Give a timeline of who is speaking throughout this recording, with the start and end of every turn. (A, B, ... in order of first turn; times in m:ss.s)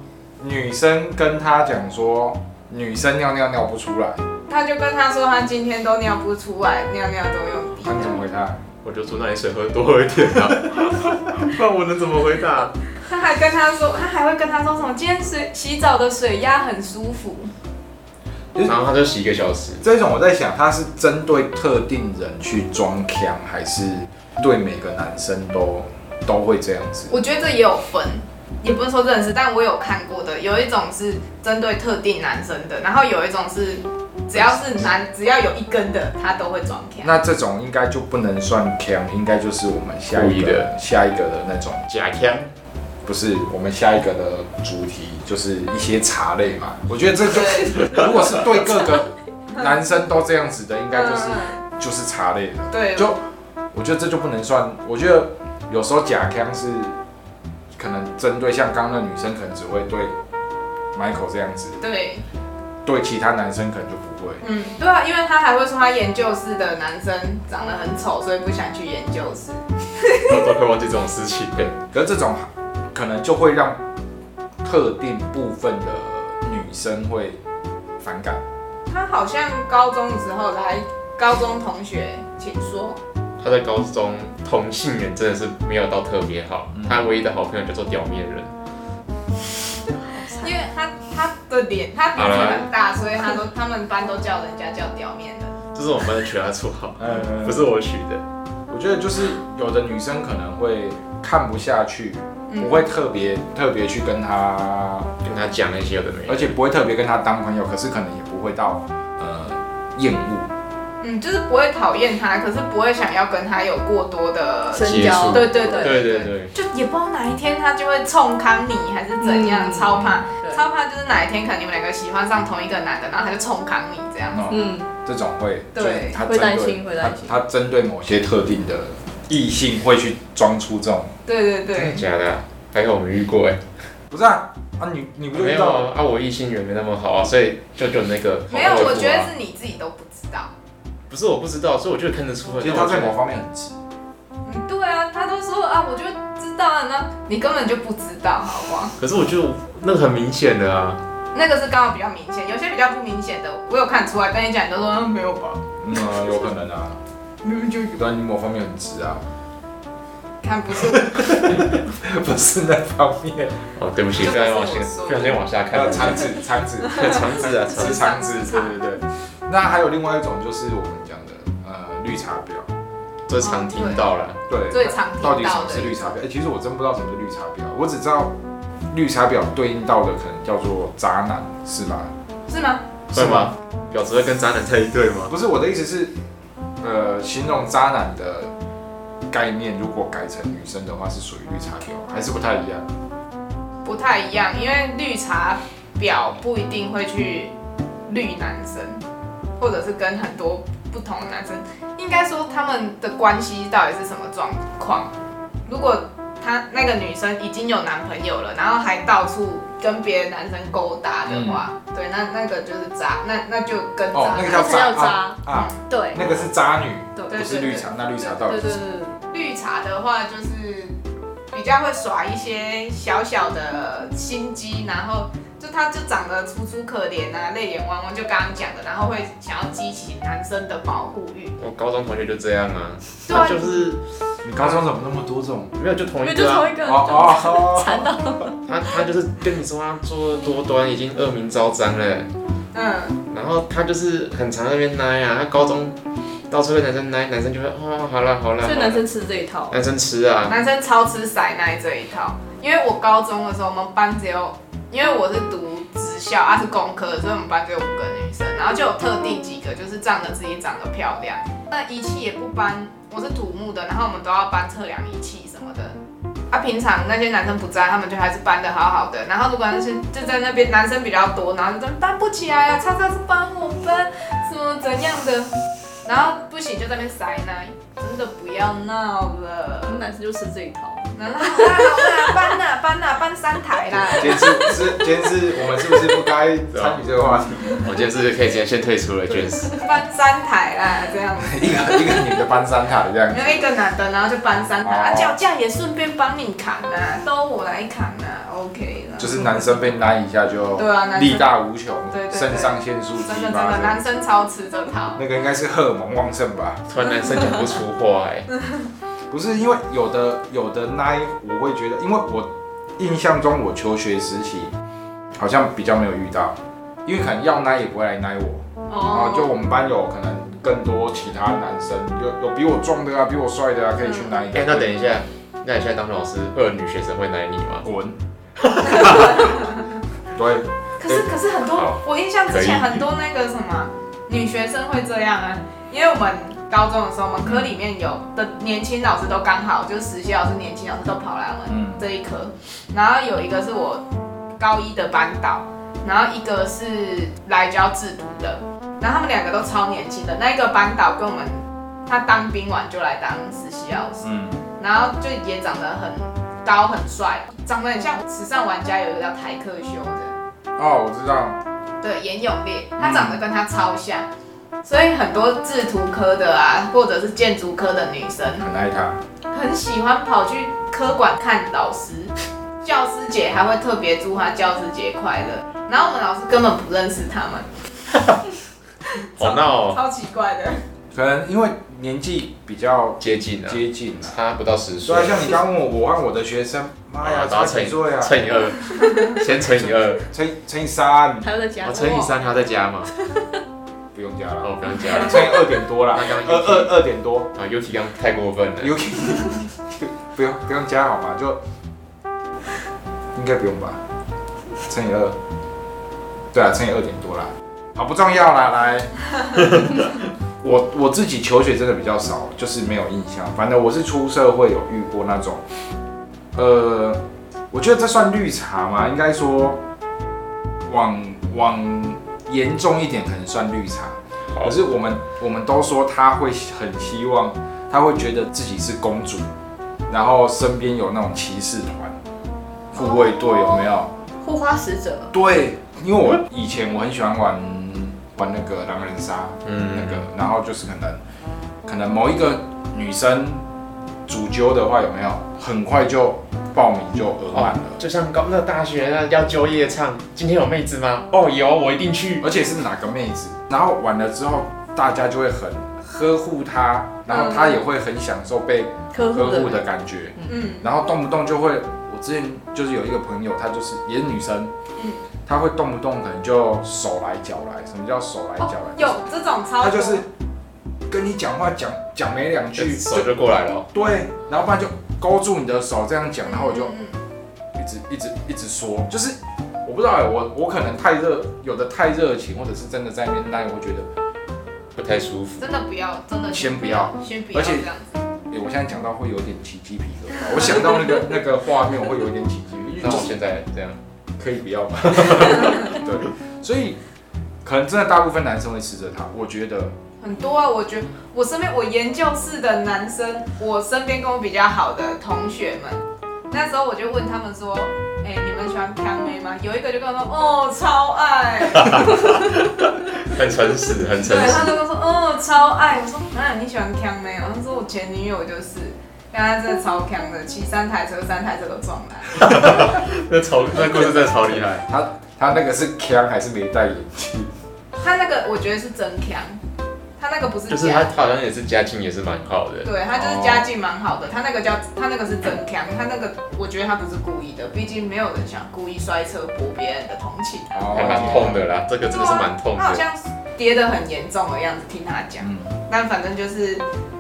0:00.4-0:04.2 A
0:04.5-0:08.2 B
0:07.8-0:08.6 A
0:08.8-0:12.8 C
0:13.0-0:17.5 B
0:18.7-0:19.8 C
0:19.8-0:27.2 A
0:27.1-0:37.2 B
0:37.0-0:41.8 A
0:40.1-0:40.7 C
0:41.9-0:42.5 C
0:43.0-0:53.2 A
0:47.2-0:48.1 B
0:50.9-0:51.6 B
0:52.7-0:53.2 B
0:53.7-0:57.0 A
0:57.8-1:00.2 A
1:00.9-1:01.8 A
1:01.8-1:02.3 B
1:02.8-1:04.4 A
1:04.4-1:10.4 B
1:10.2-1:11.7 C
1:11.6-1:13.8 A
1:14.6-1:17.4 A
1:18.0-1:18.4 A
1:18.9-1:23.0 B
1:23.4-1:28.5 C
1:26.7-1:27.1 A
1:30.1-1:30.6 D
1:30.4-1:35.6 B
1:32.2-1:32.7 C
1:35.8-1:38.2 C
1:37.0-1:37.7 A
1:38.7-1:45.1 A
1:42.5-1:42.9 B
1:45.2-1:46.5 C
1:46.3-1:50.5 A
1:51.0-2:04.4 B
1:54.7-1:56.1 D
1:54.8-1:56.5 C
1:59.2-2:00.6 D
2:04.3-2:11.2 A
2:04.5-2:04.9 D
2:05.7-2:06.2 B
2:06.2-2:07.4 D
2:11.3-2:12.0 B
2:11.7-2:13.6 C
2:14.1-2:15.9 A
2:15.3-2:19.3 C
2:18.5-2:20.5 B
2:21.1-2:23.2 C
2:22.6-2:23.8 A
2:24.4-2:29.0 B
2:29.0-2:31.0 C
2:31.3-2:36.2 B
2:35.8-2:37.0 A
2:37.4-2:38.1 B
2:38.0-2:39.2 A
2:40.4-2:41.4 B
2:40.8-2:43.7 A
2:43.8-2:48.1 C
2:44.2-2:45.4 B
2:45.7-2:52.7 A
2:46.9-2:48.8 B
2:53.3-2:54.4 C
2:53.4-2:54.1 B
2:54.5-2:58.3 A
2:54.7-2:56.1 B
2:58.9-3:02.1 A
3:02.5-3:02.8 B
3:03.1-3:03.5 A
3:03.1-3:05.3 C
3:05.3-3:06.1 A
3:06.8-3:08.5 A
3:09.3-3:12.9 A
3:13.8-3:17.5 B
3:18.1-3:19.0 B
3:19.6-3:25.1 B
3:25.7-3:34.9 B
3:31.3-3:31.6 A
3:34.1-3:38.8 A
3:34.5-3:36.2 D
3:35.5-3:35.8 B
3:36.2-3:36.5 C
3:37.3-3:37.9 B
3:38.4-3:39.2 D
3:39.3-3:41.0 B
3:41.5-3:51.5 B
3:51.6-3:54.0 C
3:53.3-3:53.8 B
3:54.4-3:55.7 A
3:54.6-3:54.8 C
3:55.8-3:56.7 C
3:56.2-3:58.6 D
3:56.8-3:58.2 A
3:58.6-4:02.3 C
4:02.7-4:03.2 B
4:03.3-4:06.0 C
4:06.5-4:09.0 C
4:08.6-4:09.8 D
4:09.7-4:10.6 C
4:10.5-4:26.0 B
4:26.5-4:35.5 B
4:36.0-4:40.0 B
4:39.9-4:42.1 D
4:41.2-4:44.8 B
4:44.0-4:47.8 A
4:46.7-4:47.0 C
4:47.7-4:49.8 C
4:49.7-4:52.2 B
4:51.4-4:53.5 A
4:53.3-4:59.6 B
4:54.8-4:55.4 A
4:59.2-5:04.0 A
5:00.8-5:01.5 B
5:02.1-5:05.2 B
5:05.2-5:06.8 A
5:06.9-5:08.5 C
5:09.3-5:14.7 A
5:15.4-5:25.0 A
5:18.9-5:19.5 B
5:24.0-5:24.4 B
5:24.5-5:27.9 C
5:27.8-5:28.2 A
5:28.8-5:29.4 C
5:29.0-5:29.6 B
5:30.3-5:30.7 A
5:31.0-5:44.0 B
5:31.7-5:32.0 C
5:32.5-5:33.0 C
5:41.7-5:42.0 A
5:44.6-5:54.3 B
5:54.2-5:54.6 A
5:54.8-6:00.4 B
6:00.8-6:01.6 A
6:02.0-6:04.3 B
6:03.0-6:03.4 A
6:04.8-6:08.7 B
6:08.6-6:09.2 A
6:09.5-6:17.7 B
6:18.1-6:18.4 C
6:19.2-6:20.8 B
6:19.4-6:20.0 C
6:21.1-6:24.4 A
6:23.2-6:25.6 C
6:25.0-6:28.6 A
6:27.2-6:30.3 C
6:29.6-6:31.5 A
6:31.4-6:32.3 D
6:31.8-6:33.1 C
6:33.2-6:33.6 D
6:34.1-6:37.5 A
6:34.6-6:37.0 C
6:37.6-6:39.0 C
6:38.8-6:41.6 A
6:43.3-6:44.0 A
6:44.9-6:45.4 A
6:46.5-6:49.2 A
6:50.6-6:55.6 A
6:56.5-6:59.8 A
7:00.8-7:09.5 A
7:10.1-7:12.2 A
7:12.9-7:14.1 A
7:13.0-7:15.3 D
7:15.3-7:21.2 A
7:19.6-7:20.2 C
7:21.8-7:23.6 A
7:24.3-7:28.0 A
7:27.5-7:32.5 C
7:32.4-7:44.7 A
7:37.3-7:37.8 B
7:39.1-7:39.8 D
7:40.5-7:40.9 B
7:45.4-7:49.2 A
7:48.6-7:50.2 B
7:49.8-7:50.3 A
7:51.1-7:53.3 A
7:52.8-7:53.9 C
7:53.9-7:57.0 A
7:56.5-7:57.2 B
7:57.8-8:04.1 A
8:05.0-8:05.7 C
8:05.6-8:08.2 B
8:06.4-8:07.9 A
8:08.5-8:13.4 A
8:13.0-8:14.0 C
8:14.4-8:17.0 A
8:15.2-8:15.8 C
8:17.6-8:20.0 A
8:20.2-8:32.5 B
8:31.8-8:34.8 C
8:34.2-8:42.5 B
8:42.4-8:44.9 C
8:44.9-8:47.5 A
8:48.0-8:49.6 B
8:50.2-8:51.3 B
8:50.7-8:53.0 C
8:52.8-9:01.4 B
9:00.7-9:01.6 A
9:00.9-9:03.0 C
9:02.1-9:06.8 B
9:05.4-9:05.7 A